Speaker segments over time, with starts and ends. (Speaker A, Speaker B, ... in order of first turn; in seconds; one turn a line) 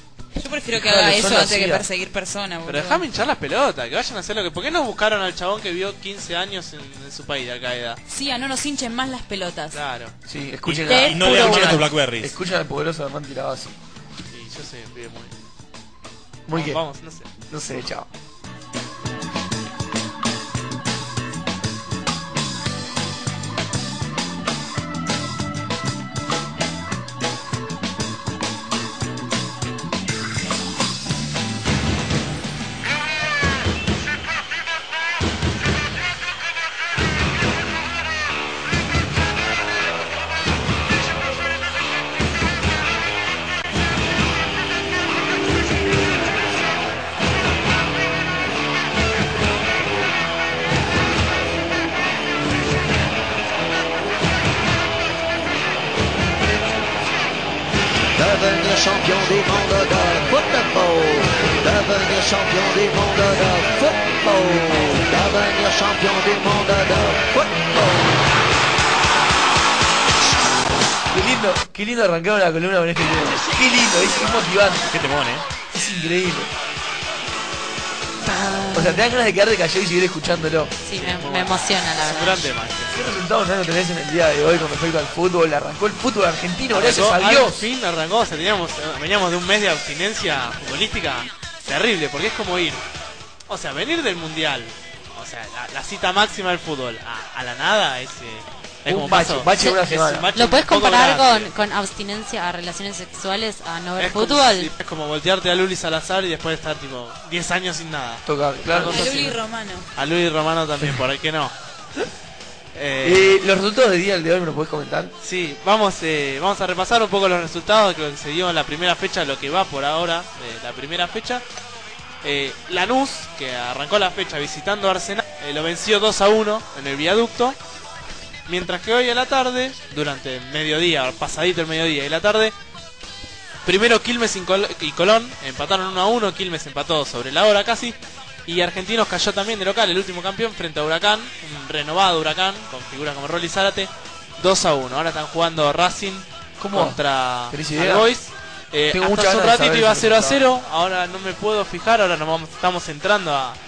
Speaker A: 0.3-3.0
Speaker B: 0.7-1.9
Speaker C: 2.7-8.0
Speaker A: 8.1-9.8
Speaker C: 9.7-10.2
Speaker B: 10.3-13.8
Speaker D: 10.7-12.4
Speaker E: 10.8-11.8
Speaker C: 14.3-15.3
Speaker B: 16.5-16.8
Speaker C: 16.5-17.3
Speaker B: 17.5-18.1
Speaker F: 58.1-68.2
Speaker B: 71.1-74.9
Speaker D: 74.9-75.5
Speaker B: 75.7-76.5
Speaker C: 78.5-78.8
Speaker B: 78.7-80.7
Speaker E: 80.8-82.5
Speaker C: 81.0-83.0
Speaker B: 82.9-87.7
Speaker C: 86.7-92.8
Speaker C: 93.5-101.5
Speaker B: 98.9-100.3
Speaker E: 100.3-104.7
Speaker C: 104.0-109.4
Speaker B: 108.3-109.3
Speaker A: 108.8-109.9
Speaker C: 110.0-111.5
Speaker C: 112.8-113.4
Speaker B: 113.0-115.1
Speaker C: 115.2-121.4
Speaker C: 122.2-127.6
Speaker C: 128.5-132.6
Speaker C: 133.7-153.6
Speaker B: 146.6-148.1
Speaker B: 148.9-150.4